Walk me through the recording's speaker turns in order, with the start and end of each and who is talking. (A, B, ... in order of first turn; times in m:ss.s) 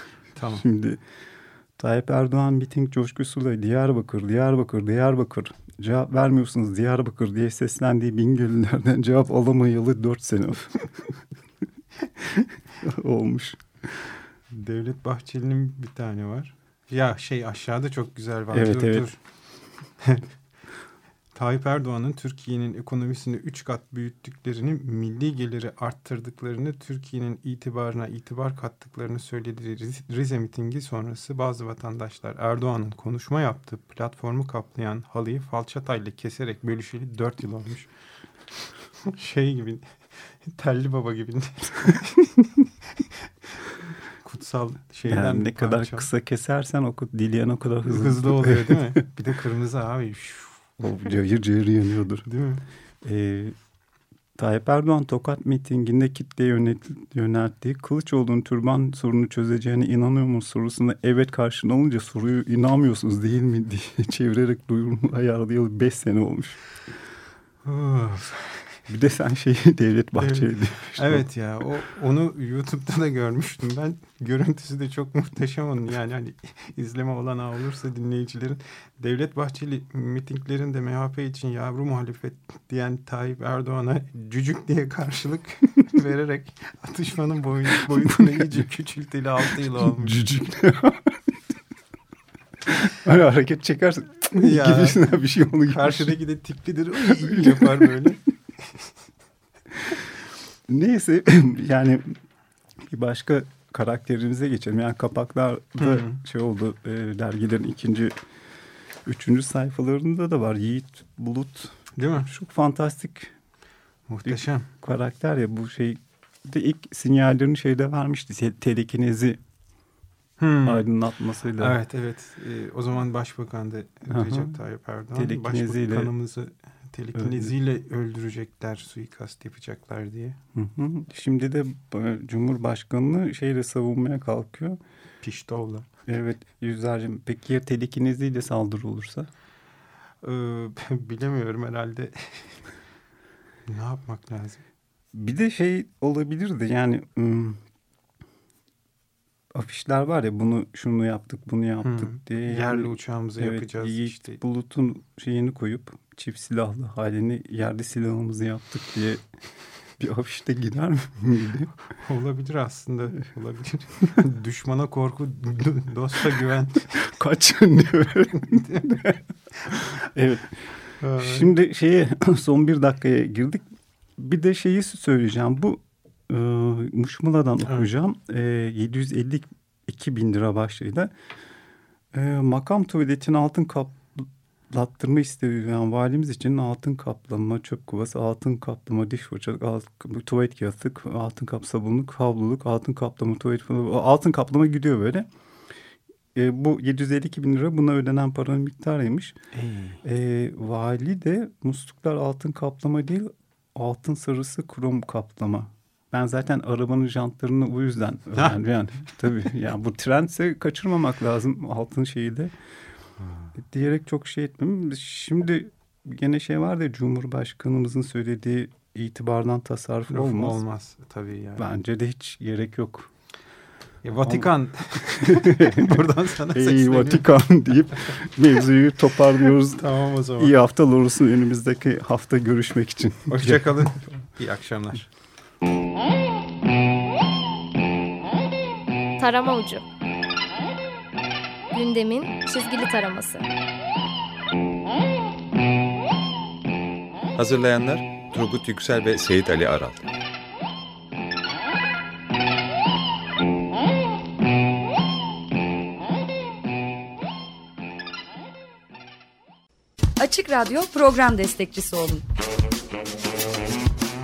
0:00.3-0:00.6 A
0:00.6-0:01.0 B
0:01.8-0:11.1 B
0:12.2-0:14.2 B
0:14.5-0:19.2 A
0:18.5-0:19.1 B
0:21.3-0:37.9 A
0:39.0-0:39.9 A
0:40.4-0:42.3 A
0:44.2-0:46.1 A
0:45.0-0:49.0 B
0:47.8-0:50.7 A
0:50.8-0:52.3 B
0:52.2-0:52.6 A
0:53.0-0:53.6 B
0:54.4-1:06.6 B
1:07.6-1:08.7 A
1:08.9-1:11.2 B
1:10.2-1:30.2 A
1:29.8-1:31.2 B
1:32.6-1:36.2 B
1:34.3-1:35.2 A
1:35.7-1:38.2 A
1:37.0-1:38.2 B
1:40.7-1:42.2 B
1:42.8-1:48.2 B
1:45.8-1:46.2 A
1:49.0-1:53.3 B
1:52.0-1:52.3 A
1:54.1-1:54.7 A
1:54.2-1:59.4 B
2:00.4-2:00.9 A
2:00.6-2:01.8 B
2:01.6-2:10.4 A
2:04.1-2:04.6 B
2:05.1-2:06.1 B
2:07.2-2:07.5 B
2:10.5-2:14.8 B
2:15.2-2:15.9 A
2:16.1-2:19.3 B
2:20.2-2:22.6 A
2:23.7-2:24.6 A
2:25.1-2:27.6 B
2:29.5-2:39.2 B
2:31.8-2:34.4 A
2:40.0-2:41.7 B
2:42.0-2:47.0 A
2:46.9-2:53.6 B
2:48.3-2:48.9 A
2:51.0-2:51.5 A
2:54.2-3:01.1 B
3:02.1-3:15.3 B
3:16.3-3:19.4 B
3:19.5-3:20.0 A
3:20.0-3:32.5 B
3:28.3-3:28.6 A
3:33.6-3:40.6 B
3:40.1-3:41.7 A
3:41.6-3:43.1 B
3:44.0-3:47.5 A
3:44.2-3:44.5 B
3:45.1-3:54.1 B
3:49.7-3:50.5 A
3:53.3-3:55.1 A
3:59.2-3:59.8 C
4:01.7-4:03.4 C
4:07.4-4:10.0 D
4:20.2-4:22.2 E